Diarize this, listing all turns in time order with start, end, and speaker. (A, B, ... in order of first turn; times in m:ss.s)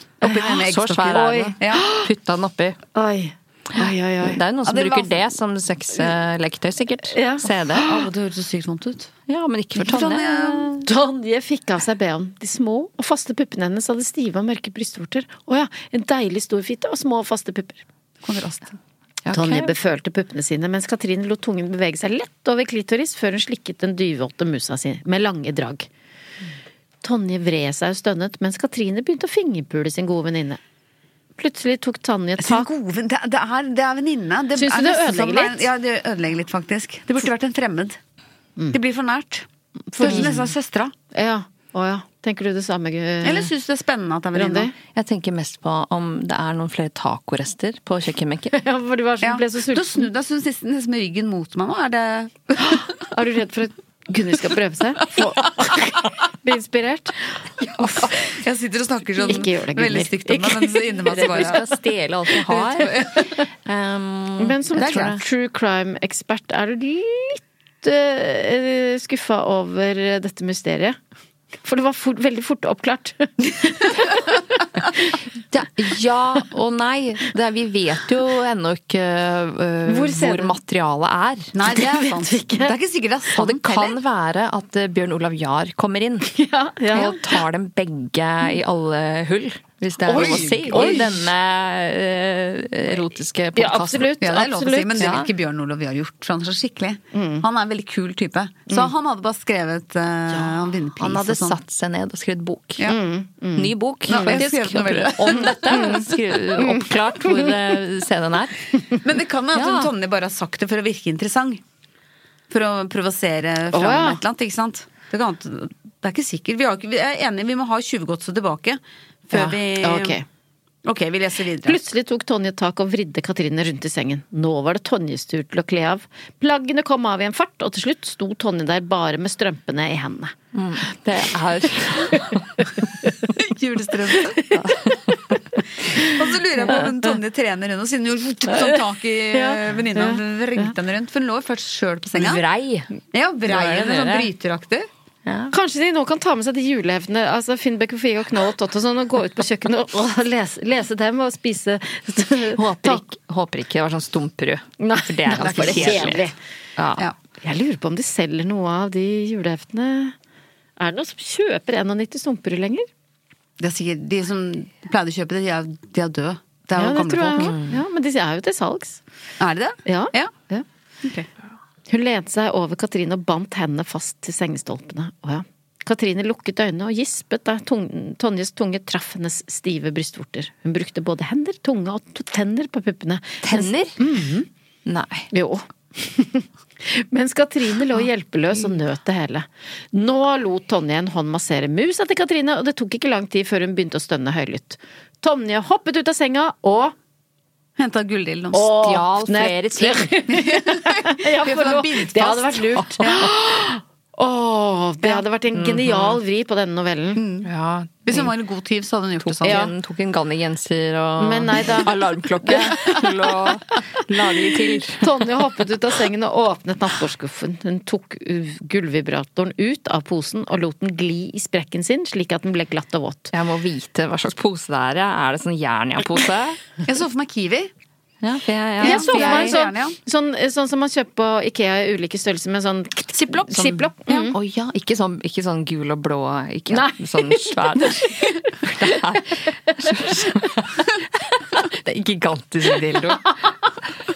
0:00.2-0:01.9 A
0:00.2-0:00.5 B
0:00.3-0:02.8 C
0:01.1-0:02.1 B
0:02.9-0:04.4 B
0:03.8-0:08.0 C
0:04.7-0:05.2 A
0:07.1-0:07.8 B
0:07.8-0:09.1 A
0:09.3-0:10.9 C
0:09.8-0:10.8 A
0:10.8-0:17.8 B
0:18.2-0:18.8 A
0:19.2-0:19.8 C
0:19.3-0:25.9 B
0:27.0-0:30.6 B
0:31.4-0:32.7 B
0:32.4-0:38.0 A
0:34.6-0:35.7 B
0:38.7-0:39.5 A
0:39.9-0:40.5 B
0:40.0-0:40.9 A
0:40.1-0:40.4 C
0:41.1-0:43.5 B
0:43.2-0:44.7 A
0:44.3-0:44.7 B
0:44.9-0:48.5 C
0:48.5-0:50.1 B
0:49.2-0:52.9 A
0:52.6-0:58.1 B
0:57.6-0:58.1 C
0:58.3-1:01.6 A
0:59.2-1:01.7 B
1:01.1-1:05.2 C
1:02.5-1:03.3 A
1:04.4-1:11.0 B
1:11.6-1:14.2 B
1:15.5-1:21.5 C
1:19.9-1:20.6 B
1:21.5-1:24.0 A
1:21.6-1:22.8 B
1:23.3-1:26.3 C
1:26.3-1:27.4 B
1:26.9-1:34.2 C
1:30.1-1:31.2 A
1:30.1-1:31.2 B
1:33.6-1:35.2 B
1:34.2-1:41.6 A
1:35.0-1:35.3 C
1:37.1-1:37.4 B
1:41.0-1:43.0 C
1:42.8-1:44.5 B
1:43.6-1:48.6 C
1:44.1-1:45.9 A
1:45.4-1:47.6 B
1:49.0-1:51.6 A
1:49.5-1:49.9 C
1:52.5-2:00.2 A
1:53.7-1:54.2 B
1:59.3-2:00.2 B
2:00.8-2:01.8 A
2:01.7-2:10.3 B
2:10.5-2:12.7 C
2:12.1-2:12.4 B
2:13.2-2:14.5 A
2:14.5-2:15.1 C
2:15.6-2:16.0 B
2:15.9-2:22.4 A
2:18.5-2:18.8 B
2:19.3-2:20.7 B
2:22.2-2:22.9 C
2:23.1-2:24.9 A
2:23.5-2:24.3 C
2:25.2-2:25.5 C
2:25.5-2:33.0 B
2:32.5-2:37.1 C
2:34.8-2:36.4 B
2:35.4-2:36.2 A
2:37.4-2:40.2 B
2:40.8-2:42.9 B
2:43.6-2:47.6 A
2:46.8-2:49.0 B
2:47.4-2:47.8 C
2:49.4-2:50.3 A
2:49.8-2:50.6 B
2:51.9-3:04.5 B
3:03.4-3:04.0 C
3:04.8-3:05.3 C
3:05.3-3:17.0 B
3:17.8-3:18.7 A
3:18.5-3:27.2 B
3:18.7-3:20.2 C
3:20.3-3:23.3 A
3:25.5-3:26.2 C
3:27.2-3:27.5 A
3:27.4-3:28.4 C
3:28.0-3:29.6 A
3:29.2-3:35.3 C
3:29.4-3:29.7 B
3:31.2-3:33.0 B
3:35.0-3:43.3 B
3:43.3-3:46.6 C
3:46.9-3:47.7 A
3:48.2-3:49.6 C
3:48.8-3:50.0 A
3:48.8-3:54.4 B
3:53.2-3:53.6 A
3:53.5-4:00.9 C
3:56.7-3:58.1 B
4:01.5-4:03.4 C